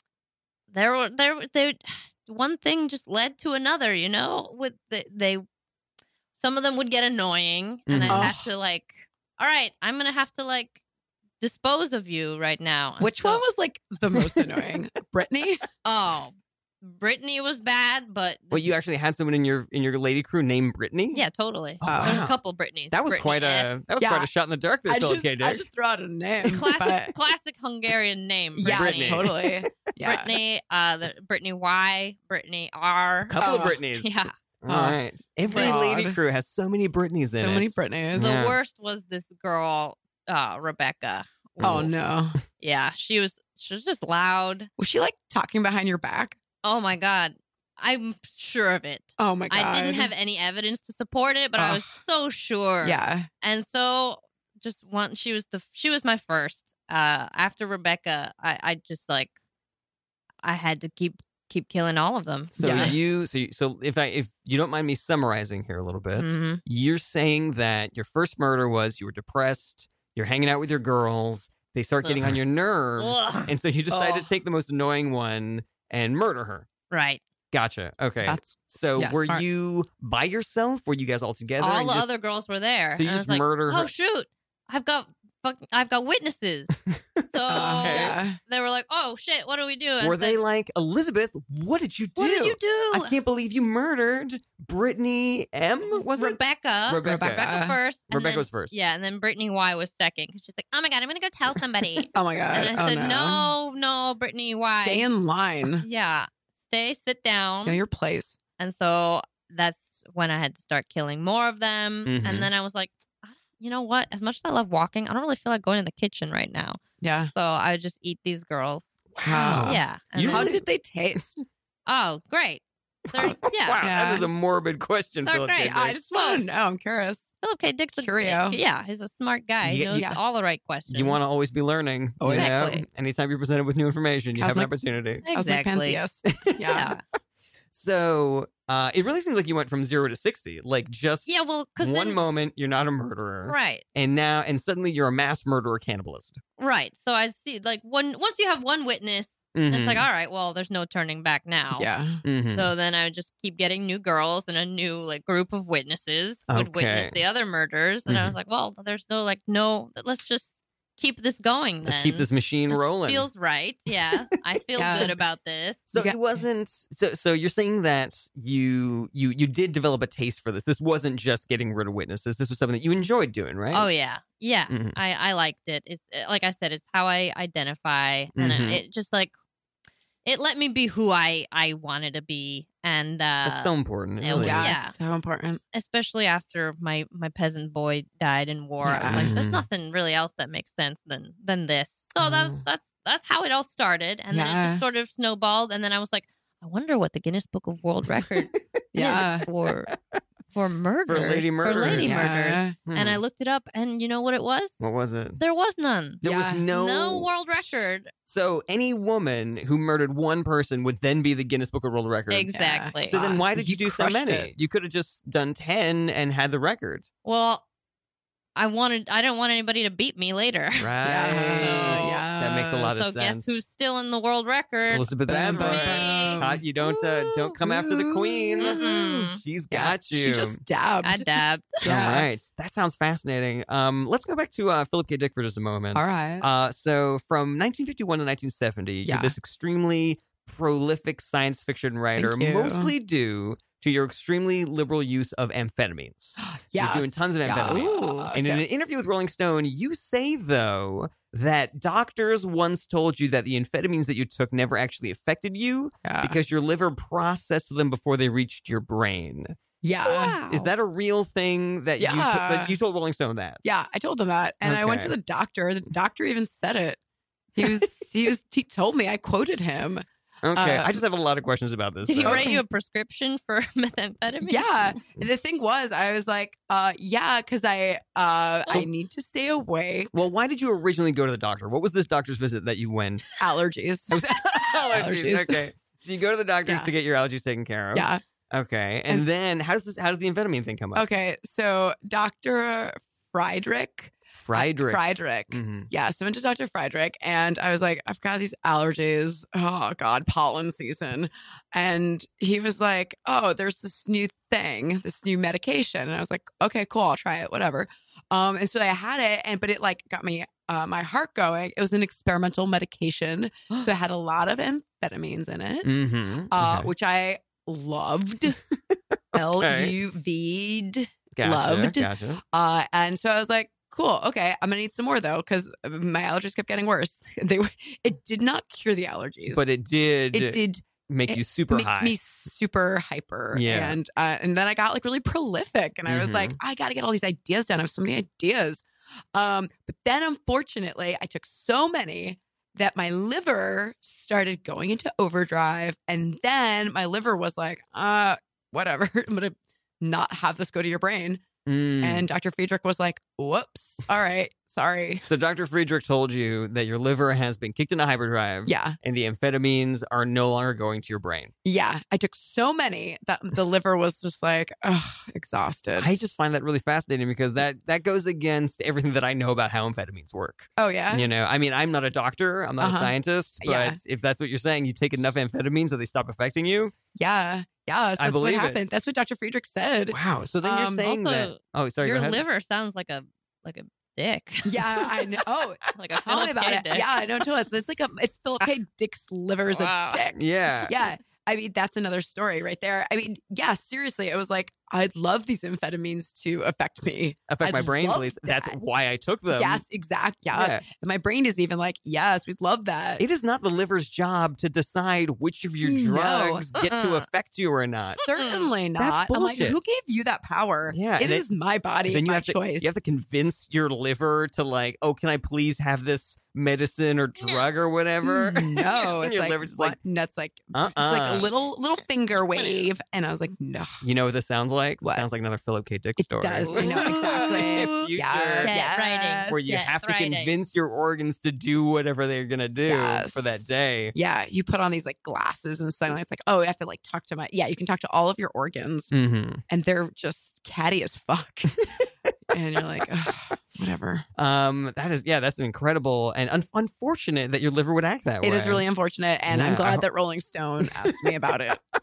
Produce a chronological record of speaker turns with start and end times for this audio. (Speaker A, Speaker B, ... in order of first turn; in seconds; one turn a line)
Speaker A: 0.7-5.4
Speaker A: 6.4-10.8
Speaker B: 7.9-8.3
Speaker C: 8.1-8.5
Speaker A: 11.4-13.4
Speaker C: 13.0-15.6
Speaker A: 15.8-16.3
Speaker A: 16.8-18.7
Speaker B: 18.5-21.2
Speaker A: 21.1-23.7
Speaker B: 21.8-22.4
Speaker C: 21.9-22.2
Speaker B: 22.9-25.6
Speaker C: 24.0-24.3
Speaker C: 24.9-27.1
Speaker A: 26.4-29.4
Speaker C: 28.6-30.3
Speaker B: 28.6-29.7
Speaker A: 30.0-34.3
Speaker B: 33.2-38.6
Speaker C: 33.4-33.8
Speaker C: 34.7-36.2
Speaker A: 35.5-35.8
Speaker C: 37.4-38.3
Speaker A: 38.1-41.9
Speaker B: 41.6-41.9
Speaker C: 41.6-42.4
Speaker A: 42.6-44.7
Speaker C: 44.8-46.4
Speaker A: 46.6-59.3
Speaker C: 49.2-50.1
Speaker C: 51.6-51.9
Speaker C: 52.8-53.3
Speaker A: 60.4-63.0
Speaker B: 62.5-76.7
Speaker C: 62.6-62.9
Speaker A: 66.2-66.6
Speaker A: 72.0-72.3
Speaker A: 73.0-73.5
Speaker C: 73.9-74.3
Speaker A: 76.9-77.2
Speaker B: 77.5-82.1
Speaker C: 78.2-79.4
Speaker A: 81.6-90.4
Speaker B: 82.9-83.9
Speaker B: 86.9-88.2
Speaker C: 87.5-88.4
Speaker B: 90.0-97.5
Speaker A: 92.2-93.1
Speaker A: 96.0-105.1
Speaker C: 97.0-97.8
Speaker B: 98.1-98.7
Speaker C: 102.1-103.5
Speaker C: 104.8-105.8
Speaker A: 105.8-107.8
Speaker C: 107.6-108.3
Speaker A: 108.6-119.0
Speaker B: 112.0-112.5
Speaker C: 117.0-117.3
Speaker B: 119.1-120.6
Speaker C: 119.2-121.4
Speaker A: 119.5-120.5
Speaker A: 121.9-123.8
Speaker B: 123.1-126.0
Speaker C: 123.8-124.3
Speaker A: 125.2-126.4
Speaker C: 125.6-127.3
Speaker A: 127.4-131.2
Speaker C: 128.0-128.6
Speaker B: 129.6-130.1
Speaker C: 129.9-130.2
Speaker B: 130.9-135.2
Speaker C: 132.2-132.6
Speaker A: 132.3-132.8
Speaker C: 134.3-134.7
Speaker A: 135.2-136.0
Speaker C: 135.3-136.9
Speaker A: 136.7-137.0
Speaker B: 137.7-141.3
Speaker A: 141.3-142.2
Speaker B: 141.8-146.4
Speaker A: 143.5-143.8
Speaker A: 146.6-151.9
Speaker B: 149.5-150.1
Speaker C: 151.7-152.2
Speaker B: 152.2-152.7
Speaker A: 152.5-165.9
Speaker B: 156.5-157.2
Speaker B: 158.1-158.3
Speaker B: 161.8-163.3
Speaker C: 164.8-165.1
Speaker B: 165.9-173.9
Speaker C: 165.9-166.4
Speaker A: 173.7-179.3
Speaker B: 174.7-174.9
Speaker B: 178.3-178.8
Speaker A: 180.2-184.9
Speaker B: 183.4-184.7
Speaker C: 184.4-185.6
Speaker A: 185.7-199.9
Speaker C: 188.8-189.3
Speaker B: 189.1-189.7
Speaker B: 192.2-192.6
Speaker C: 194.3-194.8
Speaker C: 198.9-199.4
Speaker A: 200.5-204.8
Speaker B: 201.1-202.3
Speaker C: 201.9-202.8
Speaker B: 202.8-203.2
Speaker B: 204.8-205.4
Speaker A: 205.4-208.1
Speaker B: 206.2-207.3
Speaker C: 206.2-206.6
Speaker B: 208.2-217.1
Speaker A: 212.3-213.2
Speaker C: 212.5-214.5
Speaker A: 217.2-217.6
Speaker A: 218.6-222.2
Speaker B: 220.8-223.6
Speaker C: 221.0-222.9
Speaker A: 222.9-226.5
Speaker B: 224.9-230.6
Speaker C: 225.3-232.3
Speaker A: 228.6-229.4
Speaker A: 231.0-231.8
Speaker B: 231.8-259.6
Speaker C: 235.9-236.5
Speaker C: 239.0-239.3
Speaker C: 242.2-242.9
Speaker C: 246.4-248.8
Speaker A: 247.5-248.3
Speaker C: 256.0-256.4
Speaker C: 259.8-260.4
Speaker A: 260.0-260.6
Speaker B: 260.5-263.6
Speaker C: 262.0-262.7
Speaker C: 263.6-267.0
Speaker B: 264.6-265.1
Speaker C: 267.6-271.0
Speaker B: 270.4-272.5
Speaker A: 272.1-274.8
Speaker C: 272.2-272.6
Speaker C: 274.4-280.1
Speaker B: 280.1-283.4
Speaker C: 283.4-285.6
Speaker B: 284.1-291.1
Speaker C: 286.6-286.9
Speaker C: 287.9-288.2
Speaker C: 290.9-318.6
Speaker B: 294.4-295.9
Speaker B: 315.8-316.9
Speaker B: 318.7-319.9
Speaker C: 319.3-329.6
Speaker B: 321.3-322.4
Speaker B: 329.5-332.1
Speaker C: 330.3-338.8
Speaker B: 333.5-334.0
Speaker B: 336.1-336.6
Speaker C: 339.3-351.4
Speaker B: 351.6-352.2
Speaker C: 352.0-355.2
Speaker B: 355.2-361.5
Speaker C: 358.6-359.0
Speaker C: 361.6-366.1
Speaker B: 365.9-376.9
Speaker C: 370.8-371.2
Speaker C: 372.8-374.0
Speaker C: 377.1-381.1
Speaker B: 378.2-378.9
Speaker B: 380.1-382.4
Speaker A: 380.9-385.1
Speaker C: 384.6-398.8
Speaker A: 385.9-387.2
Speaker A: 389.7-390.2
Speaker B: 390.3-391.0
Speaker B: 397.5-399.8
Speaker C: 399.5-403.2
Speaker B: 400.5-400.8
Speaker B: 403.2-408.2
Speaker C: 405.8-406.6
Speaker A: 406.7-407.2
Speaker C: 408.2-412.9
Speaker A: 408.2-408.7
Speaker B: 408.9-409.8
Speaker B: 410.9-411.5
Speaker B: 412.1-420.0
Speaker A: 417.4-417.6
Speaker C: 418.2-424.0
Speaker B: 420.7-421.5
Speaker A: 422.5-422.8
Speaker B: 424.0-428.8
Speaker C: 425.0-425.3
Speaker C: 426.2-429.6
Speaker A: 426.6-428.1
Speaker A: 428.6-430.5
Speaker B: 429.5-434.1
Speaker C: 432.8-439.1
Speaker B: 439.1-439.6
Speaker C: 439.7-441.9
Speaker C: 442.5-444.2
Speaker B: 444.4-448.8
Speaker C: 448.4-451.8
Speaker B: 449.5-450.1
Speaker B: 450.9-451.3